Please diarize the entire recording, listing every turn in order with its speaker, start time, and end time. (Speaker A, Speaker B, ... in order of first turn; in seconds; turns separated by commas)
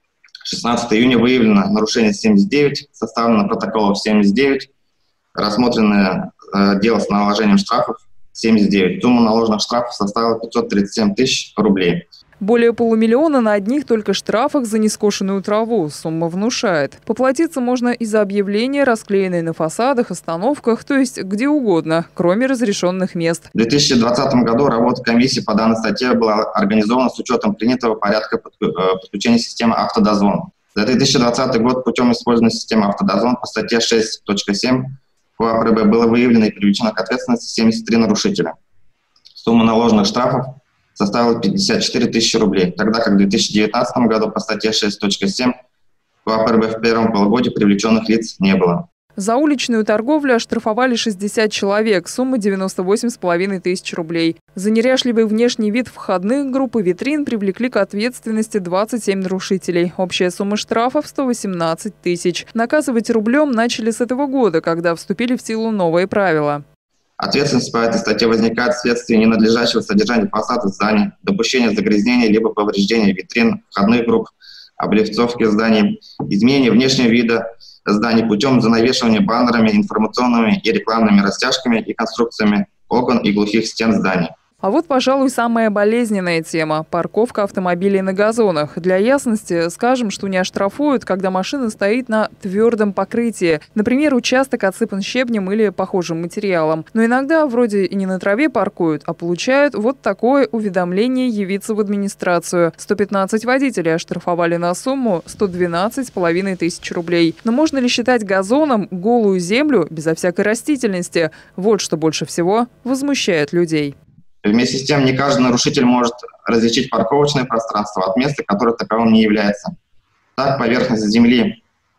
Speaker A: 0.4-4.7, Speaker A: 5.3-12.0, Speaker B: 12.4-23.5, Speaker A: 23.5-38.5, Speaker A: 39.4-45.5, Speaker A: 46.2-48.8, Speaker B: 49.2-66.6, Speaker A: 67.2-84.3, Speaker B: 84.6-113.9, Speaker A: 114.4-119.7, Speaker A: 120.3-121.6